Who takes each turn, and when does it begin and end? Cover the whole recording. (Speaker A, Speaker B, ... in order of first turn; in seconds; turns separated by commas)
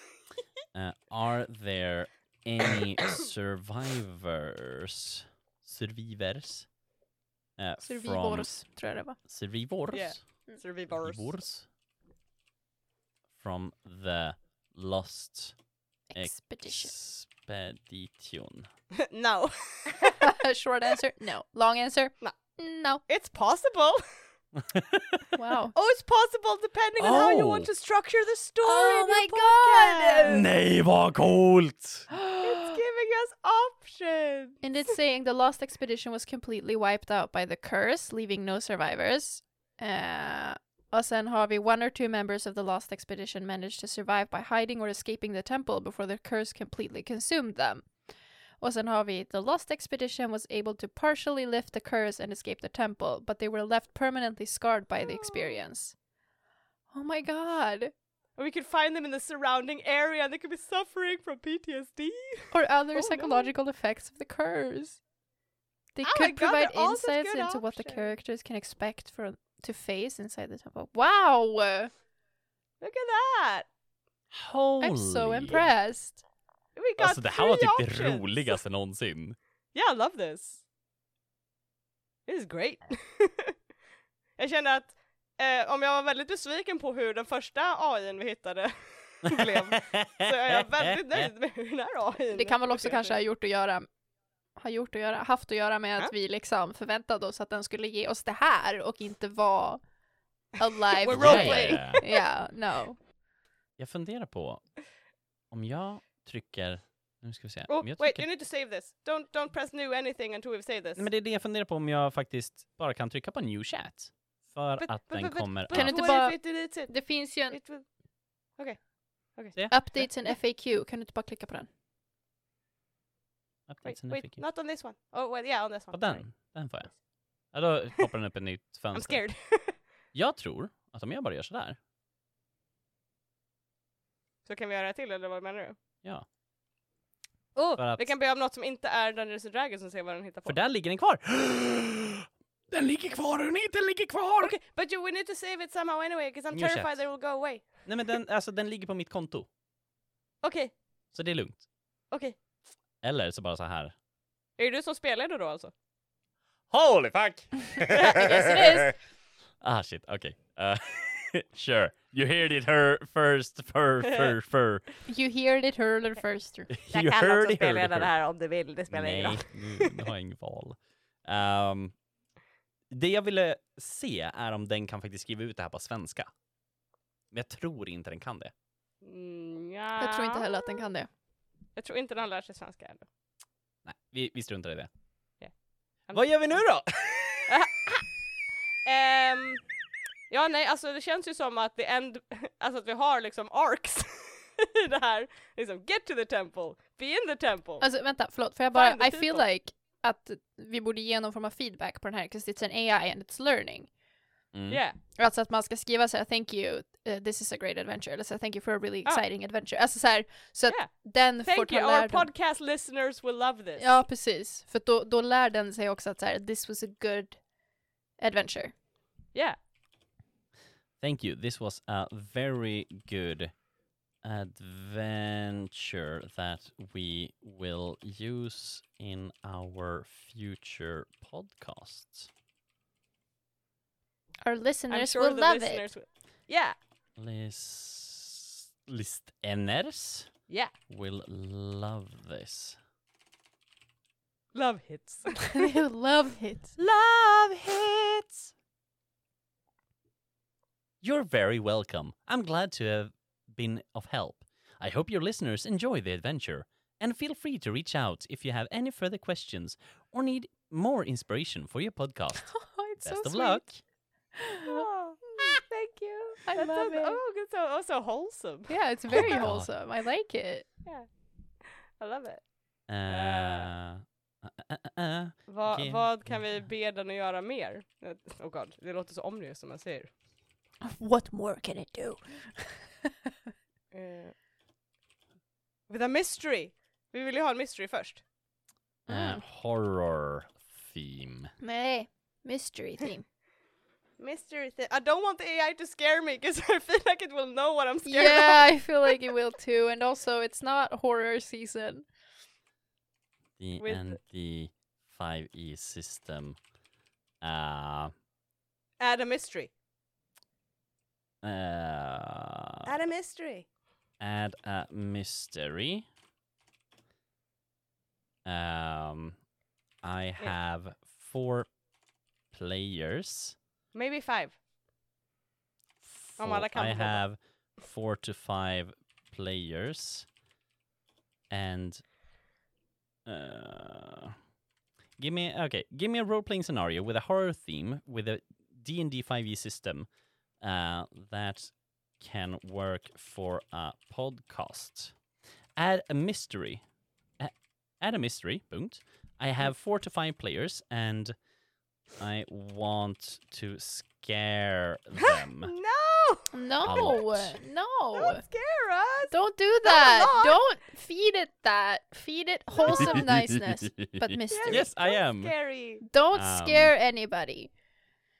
Speaker A: 0.7-6.7, Speaker A: 7.6-8.5, Speaker B: 7.8-9.2, Speaker A: 9.2-10.2, Speaker C: 9.9-11.3, Speaker A: 10.9-11.7, Speaker A: 13.4-15.5, Speaker B: 16.1-16.9, Speaker A: 16.1-18.7, Speaker C: 19.0-20.3, Speaker B: 20.0-23.0, Speaker C: 23.1-24.0, Speaker A: 24.5-25.3, Speaker B: 25.3-25.7, Speaker C: 25.7-30.5, Speaker A: 27.0-27.7, Speaker B: 28.6-30.3, Speaker A: 30.2-32.1, Speaker B: 32.1-32.7, Speaker C: 32.4-34.6, Speaker B: 34.6-47.9, Speaker B: 48.6-56.0, Speaker C: 55.0-55.6, Speaker B: 56.9-57.9, Speaker C: 58.4-63.5, Speaker B: 62.5-65.0, Speaker B: 66.0-71.9, Speaker C: 66.0-68.1, Speaker C: 72.8-73.7, Speaker A: 74.3-75.7, Speaker B: 74.8-76.2, Speaker C: 76.8-78.6, Speaker A: 77.0-79.3, Speaker C: 79.7-80.6, Speaker C: 82.3-83.5, Speaker C: 84.4-93.2, Speaker A: 89.2-91.3, Speaker B: 92.3-93.9, Speaker B: 94.5-99.8, Speaker B: 100.5-103.0, Speaker C: 101.0-102.2, Speaker A: 101.1-102.0, Speaker A: 103.8-104.6, Speaker A: 105.5-108.2, Speaker C: 107.7-111.0, Speaker A: 111.0-116.2, Speaker C: 114.8-117.8, Speaker B: 115.7-117.6, Speaker C: 118.6-118.8, Speaker C: 119.3-120.0, Speaker A: 119.5-119.9, Speaker B: 119.7-121.7, Speaker A: 123.7-124.4, Speaker C: 123.8-126.2, Speaker A: 125.9-126.9, Speaker A: 127.5-129.2, Speaker C: 128.9-129.8, Speaker A: 130.1-131.8, Speaker C: 134.4-135.8, Speaker C: 137.6-140.6, Speaker A: 137.8-138.1, Speaker A: 140.4-144.5, Speaker C: 144.4-147.8, Speaker A: 146.5-147.0, Speaker A: 147.8-149.5, Speaker C: 150.4-150.7, Speaker A: 151.1-151.6, Speaker C: 152.1-152.4, Speaker A: 153.0-153.9, Speaker C: 154.6-155.7, Speaker A: 156.7-158.9, Speaker B: 158.0-158.9, Speaker C: 158.0-158.3, Speaker A: 159.6-164.8, Speaker C: 164.0-164.3, Speaker B: 165.1-166.7, Speaker A: 166.7-168.1, Speaker C: 166.9-170.0, Speaker A: 168.9-171.9, Speaker A: 172.9-176.3, Speaker A: 177.3-178.5, Speaker C: 179.0-180.8, Speaker B: 180.0-181.1, Speaker C: 181.8-183.1, Speaker A: 183.8-184.9, Speaker C: 186.1-186.6, Speaker A: 186.1-187.5, Speaker C: 187.5-188.1, Speaker C: 188.8-189.6, Speaker C: 190.3-197.8, Speaker B: 197.8-203.9, Speaker C: 198.7-199.4, Speaker A: 204.5-204.8, Speaker C: 204.7-205.0, Speaker B: 205.2-212.3, Speaker C: 210.7-214.0, Speaker B: 213.8-217.4, Speaker B: 218.2-218.7, Speaker A: 221.0-223.5, Speaker A: 224.2-232.3, Speaker B: 234.4-235.8, Speaker C: 234.9-236.8, Speaker A: 237.2-240.3, Speaker C: 240.5-240.7, Speaker A: 240.9-242.8, Speaker C: 244.5-245.7, Speaker B: 245.5-246.8, Speaker A: 246.8-248.5, Speaker A: 251.0-263.8, Speaker B: 262.4-263.6, Speaker B: 264.4-265.6, Speaker C: 264.6-269.4, Speaker B: 266.4-267.2, Speaker B: 268.7-270.7, Speaker A: 269.1-269.7, Speaker C: 271.6-272.4, Speaker A: 272.9-276.4, Speaker C: 273.1-273.7, Speaker C: 275.5-280.1, Speaker B: 280.8-282.9, Speaker C: 283.9-284.3, Speaker C: 285.9-288.2, Speaker B: 289.1-289.4, Speaker A: 289.1-291.5, Speaker B: 291.6-293.2, Speaker C: 294.2-299.1, Speaker B: 298.0-302.1, Speaker A: 303.6-306.6, Speaker C: 303.8-304.2, Speaker A: 307.4-308.1, Speaker C: 309.0-309.7, Speaker A: 311.4-312.9, Speaker C: 312.8-313.7, Speaker A: 314.2-316.1, Speaker A: 318.4-319.4, Speaker A: 320.0-321.7, Speaker A: 322.5-323.6, Speaker C: 323.9-324.6, Speaker A: 326.0-330.3, Speaker C: 326.4-327.2, Speaker A: 331.5-332.0, Speaker A: 333.2-334.4, Speaker A: 335.2-340.1, Speaker A: 340.6-345.1, Speaker A: 345.8-346.8, Speaker A: 347.4-351.3, Speaker A: 352.2-355.7, Speaker C: 355.2-357.1, Speaker B: 356.5-358.4, Speaker A: 356.8-357.6, Speaker C: 358.1-360.6, Speaker B: 359.3-364.9, Speaker C: 362.8-363.2, Speaker A: 362.9-365.5, Speaker C: 364.5-366.0, Speaker B: 366.1-367.7, Speaker A: 366.3-366.9